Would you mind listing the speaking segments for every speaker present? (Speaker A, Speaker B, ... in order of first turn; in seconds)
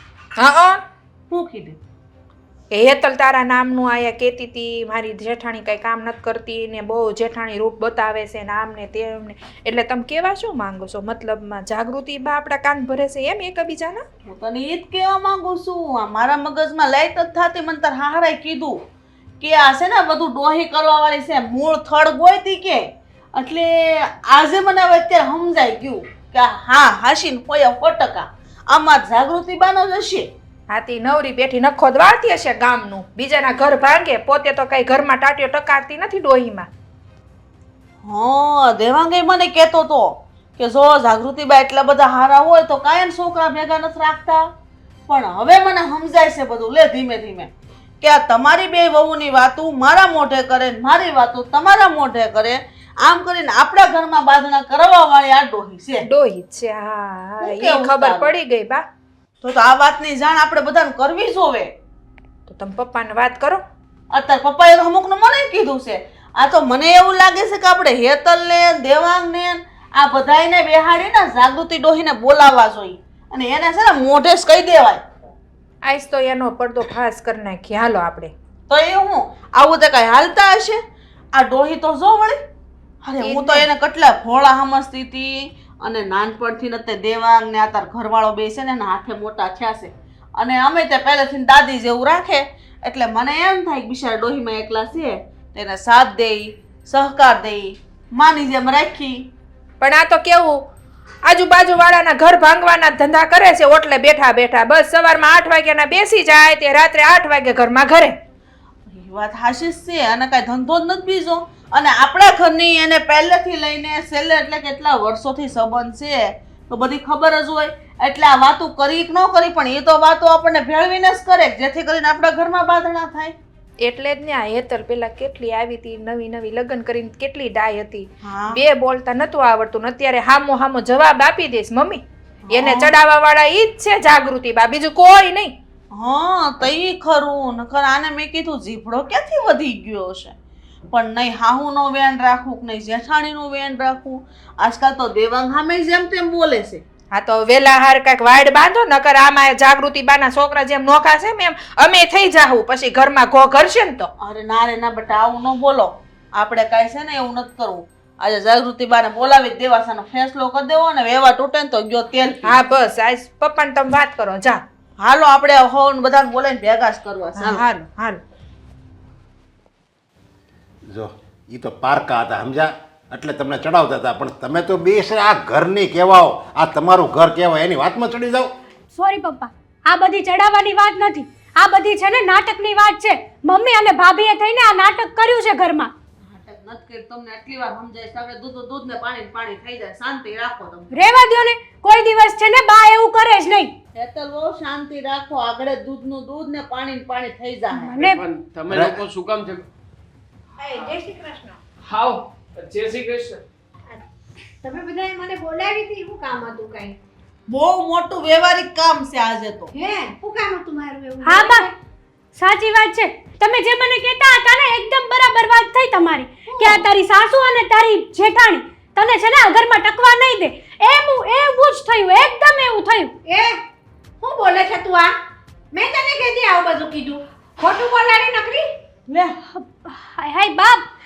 Speaker A: 0.4-0.8, 2.7-14.0, 30.7-36.7, 56.1-58.8, 62.5-63.6, 75.8-78.3, 83.2-83.7, 99.8-100.6, 101.2-108.1, 123.8-135.5, 147.1-154.1, 162.4-164.6, 167.4-168.2
Speaker B: 1.3-1.8, 14.2-18.8, 19.4-22.8, 23.3-30.3, 38.0-44.4, 45.1-47.5, 48.0-56.0, 57.4-58.3, 59.4-61.7, 64.1-75.0, 78.7-80.8, 81.3-82.4, 83.0-99.2, 108.9-123.3, 128.2-128.6, 132.5-132.9, 135.9-140.3, 140.9-146.8, 154.2-162.5, 165.0-167.6, 186.3-190.9, 193.9-197.9, 207.5-209.7
Speaker C: 170.9-178.5, 198.7-199.0
Speaker D: 178.9-185.9, 190.9-193.7, 197.8-198.2, 211.2-211.7, 212.3-223.1, 229.5-230.8
Speaker E: 198.0-199.6, 201.8-203.4
Speaker F: 200.6-201.6, 204.6-207.0, 209.7-211.7, 216.5-216.8, 223.2-223.6, 224.2-225.1, 225.7-228.7